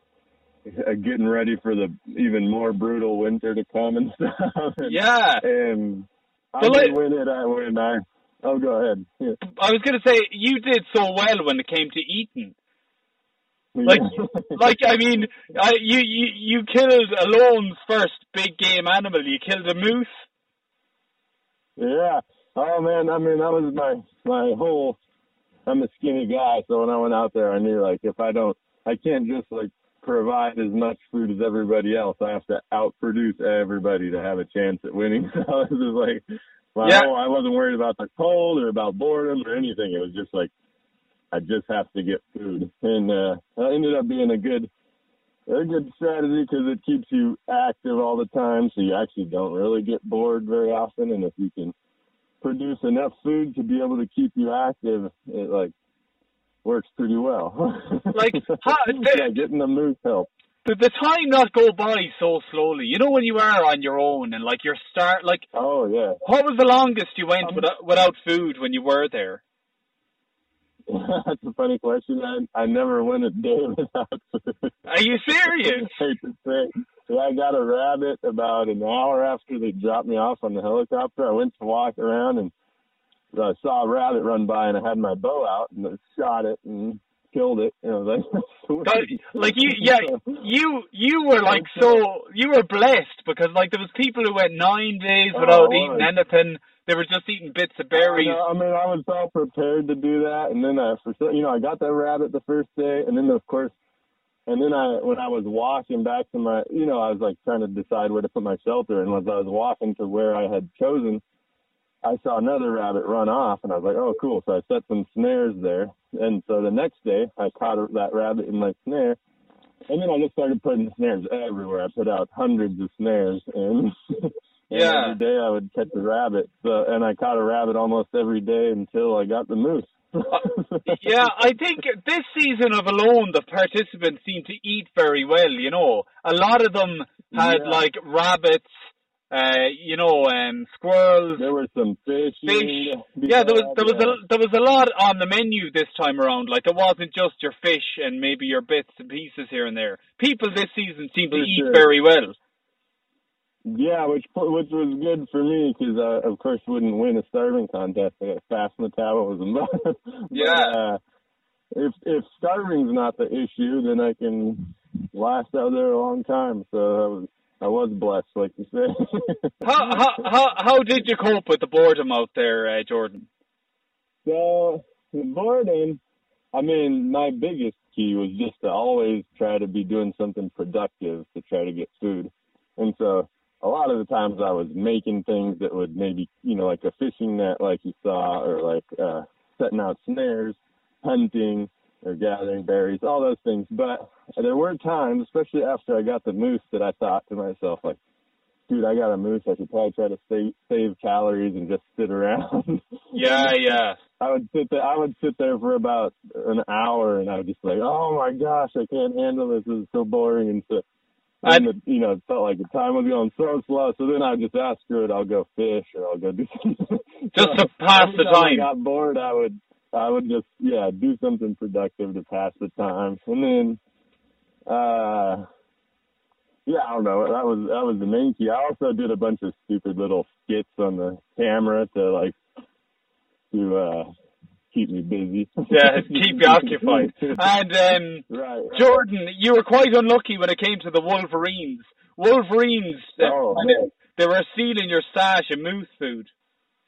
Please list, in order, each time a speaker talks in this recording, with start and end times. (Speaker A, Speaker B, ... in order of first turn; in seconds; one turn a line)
Speaker A: 0.7-9.4
Speaker B: 4.8-5.4
Speaker B: 6.6-7.0
Speaker B: 9.6-12.5
Speaker A: 13.7-14.8
Speaker B: 13.9-20.1
Speaker A: 21.8-25.0
Speaker A: 25.7-36.2
Speaker A: 36.7-40.5
Speaker B: 36.8-37.1
Speaker A: 41.3-44.7
Speaker A: 45.5-51.7
Speaker A: 52.4-55.7
Speaker A: 56.6-60.3
Speaker B: 58.1-59.3
Speaker B: 60.6-65.5
Speaker A: 65.5-66.2
Speaker B: 66.2-69.4
Speaker A: 70.9-74.8
Speaker B: 74.9-76.0
Speaker A: 75.5-82.5
Speaker A: 83.3-90.4
Speaker B: 88.8-98.4
Speaker A: 91.4-92.0
Speaker A: 95.3-96.1
Speaker A: 97.9-103.7
Speaker A: 104.5-111.2
Speaker A: 112.0-119.2
Speaker A: 119.9-131.3
Speaker B: 124.7-125.2
Speaker B: 130.3-138.7
Speaker A: 137.3-137.8
Speaker B: 139.3-141.5
Speaker A: 141.4-144.2
Speaker B: 142.4-152.3
Speaker A: 151.3-151.9
Speaker A: 153.7-161.0
Speaker B: 160.3-160.8
Speaker A: 161.7-170.2
Speaker B: 169.6-173.2
Speaker A: 174.2-176.0
Speaker A: 176.5-198.0
Speaker A: 198.7-210.8
Speaker B: 203.1-204.0
Speaker A: 211.4-223.8
Speaker B: 217.3-218.7
Speaker A: 224.7-225.4
Speaker A: 226.7-232.4
Speaker A: 233.5-234.1
Speaker A: 234.7-237.4
Speaker B: 235.7-246.3
Speaker A: 238.3-239.0
Speaker A: 243.2-243.9